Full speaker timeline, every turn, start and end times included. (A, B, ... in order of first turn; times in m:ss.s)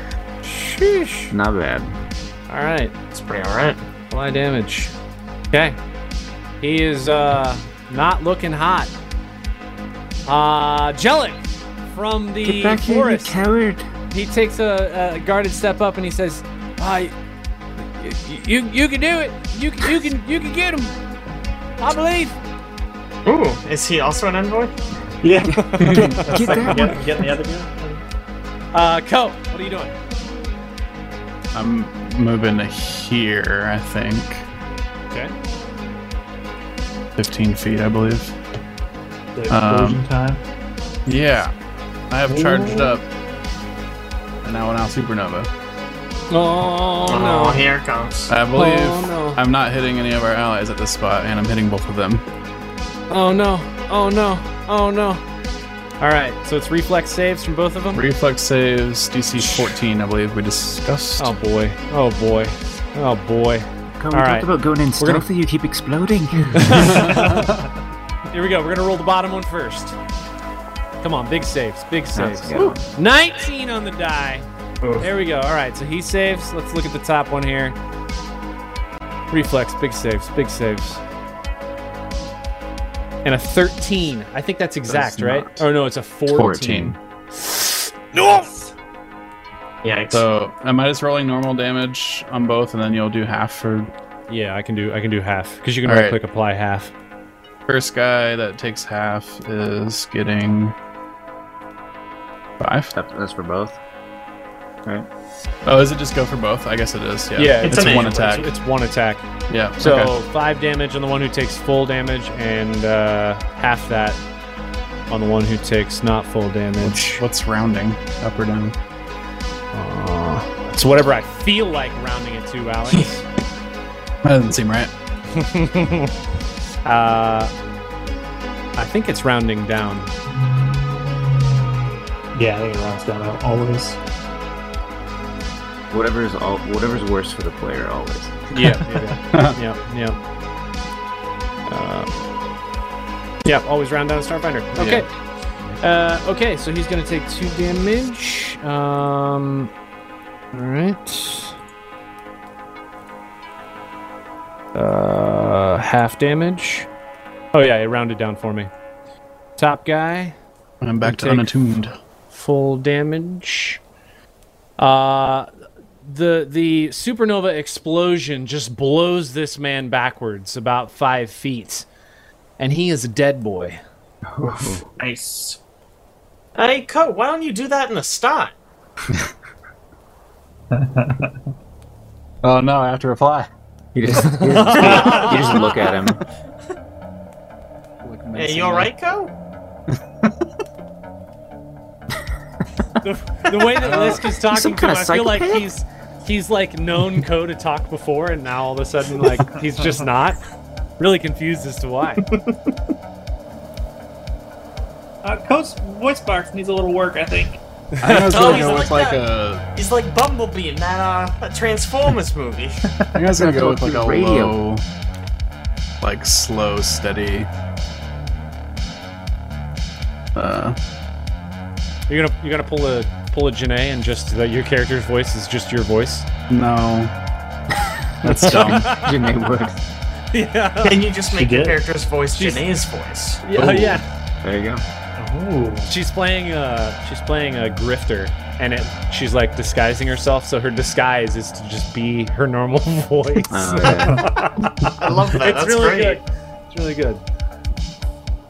0:00.4-0:01.3 A
0:01.3-0:02.0 B
0:02.5-0:02.9 A
0:03.1-0:03.8 C
0:04.1-0:04.9 A
0:05.5-0:05.8 A
0:06.6-0:08.9 A
0:10.3-0:13.4 A
0:12.4-0:13.9 B
0:14.1-0:17.1 A
0:17.8-0:20.9 A
0:21.8-0:22.4 A
0:23.3-0:24.8 C
0:25.2-0:28.0 D
0:25.6-0:26.8 A
0:25.8-0:26.2 E
0:26.2-0:27.1 B
0:28.7-0:29.9 A
0:31.5-0:34.4 E
0:37.2-0:38.4 E
0:39.4-0:40.4 D
0:39.5-0:40.0 E
0:41.1-0:41.5 E
0:42.1-0:43.0 E
0:42.3-0:42.9 A
0:44.4-0:45.5 E
0:46.3-0:47.6 A
0:47.1-0:48.3 C
0:48.3-0:52.2 E
0:48.5-0:49.4 A
0:53.1-0:55.2 A
0:56.0-0:58.0 A
0:57.9-1:01.3 E
1:01.2-1:05.2 A
1:04.0-1:07.1 B
1:06.5-1:07.5 A
1:06.9-1:07.5 E
1:07.0-1:07.4 D
1:08.3-1:10.0 A
1:11.0-1:14.5 A
1:12.1-1:12.8 B
1:14.8-1:15.1 C
1:15.0-1:17.8 A
1:19.3-1:21.0 A
1:23.2-1:28.5 A
1:24.9-1:25.7 E
1:26.3-1:27.0 E
1:26.4-1:26.8 B
1:28.2-1:28.7 D
1:29.8-1:30.2 C
1:30.1-1:33.9 E
1:34.3-1:36.9 A
1:35.8-1:36.2 E
1:37.7-1:40.7 E
1:42.6-1:42.9 E
1:42.9-1:43.8 B
1:45.6-1:48.5 E
1:47.4-1:49.3 A
1:47.6-1:48.4 C
1:49.5-1:50.2 E
1:49.8-1:54.2 A
1:55.1-1:57.2 A
1:56.8-1:58.7 E
1:59.7-2:03.2 A
2:04.2-2:04.9 E
2:05.3-2:06.1 A
2:06.8-2:07.5 A
2:08.8-2:10.1 A
2:10.3-2:14.0 D
2:15.9-2:18.4 B
2:18.5-2:20.2 A
2:18.5-2:19.6 E
2:21.7-2:22.1 A
2:23.4-2:25.1 A
2:25.8-2:29.7 A
2:30.5-2:31.6 A
2:34.7-2:36.9 A
2:37.5-2:38.7 A
2:39.6-2:40.4 A
2:40.8-2:41.9 E
2:41.0-2:41.5 A
2:42.3-2:43.8 A
2:44.8-2:45.5 A
2:46.0-2:51.9 A
2:52.6-2:53.8 A
2:54.3-2:54.8 B
2:55.0-2:55.6 D
2:56.6-2:58.5 C
3:00.7-3:01.4 D
3:02.4-3:03.5 E
3:03.9-3:06.2 B
3:04.1-3:05.8 A
3:04.7-3:05.7 C
3:08.0-3:08.9 E
3:08.4-3:09.3 C
3:09.9-3:10.4 E
3:13.0-3:20.4 A
3:13.7-3:15.7 B
3:21.0-3:22.2 A
3:22.3-3:22.5 C
3:25.2-3:27.6 D
3:28.0-3:28.8 A
3:28.0-3:29.6 E
3:28.3-3:29.2 C
3:29.7-3:32.8 C
3:33.2-3:34.8 E
3:33.4-3:34.6 B
3:36.0-3:37.5 E
3:40.4-3:40.8 E
3:42.1-3:46.3 A
3:46.5-3:47.1 E
3:48.2-3:48.9 E
3:48.2-3:49.8 B
3:48.3-3:49.4 A
3:50.3-3:51.0 A
3:50.8-3:53.4 C
3:51.3-3:51.8 D
3:52.3-3:52.6 A
3:53.4-3:54.0 A
3:53.6-3:54.0 E
3:54.4-3:54.8 B
3:55.2-3:55.9 D
3:55.8-4:07.2 A
4:03.5-4:04.3 B
4:04.0-4:05.1 D
4:05.0-4:06.2 C